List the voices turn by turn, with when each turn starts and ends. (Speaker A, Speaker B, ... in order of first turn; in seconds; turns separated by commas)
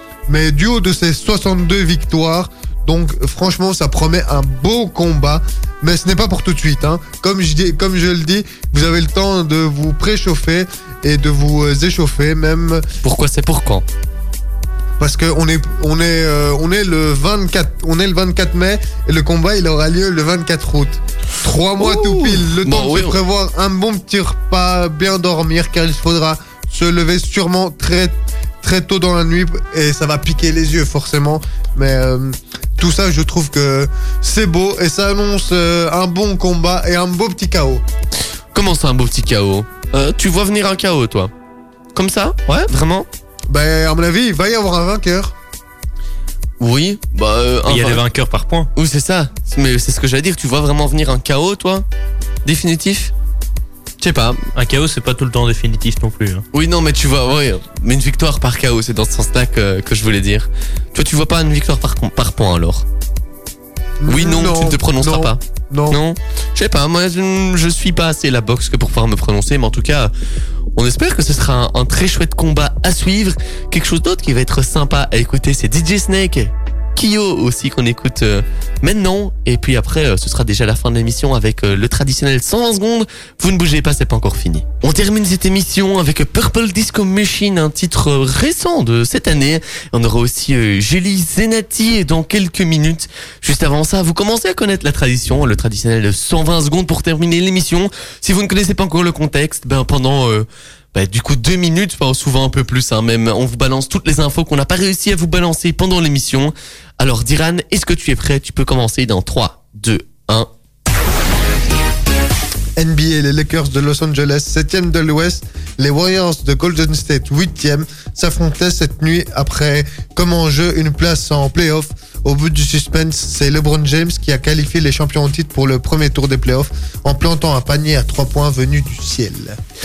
Speaker A: 0.3-12.8, Speaker B: 13.0-13.8, Speaker A: 15.0-37.8, Speaker B: 21.8-23.2, Speaker B: 38.5-41.3, Speaker B: 41.9-43.1, Speaker A: 43.5-45.3, Speaker B: 46.6-48.0, Speaker C: 47.7-48.7, Speaker B: 48.7-51.8, Speaker B: 52.4-53.1, Speaker B: 54.0-54.4, Speaker C: 54.5-56.4, Speaker B: 56.5-62.8, Speaker A: 64.0-66.0, Speaker B: 64.1-70.1, Speaker B: 70.8-110.5, Speaker A: 112.8-129.6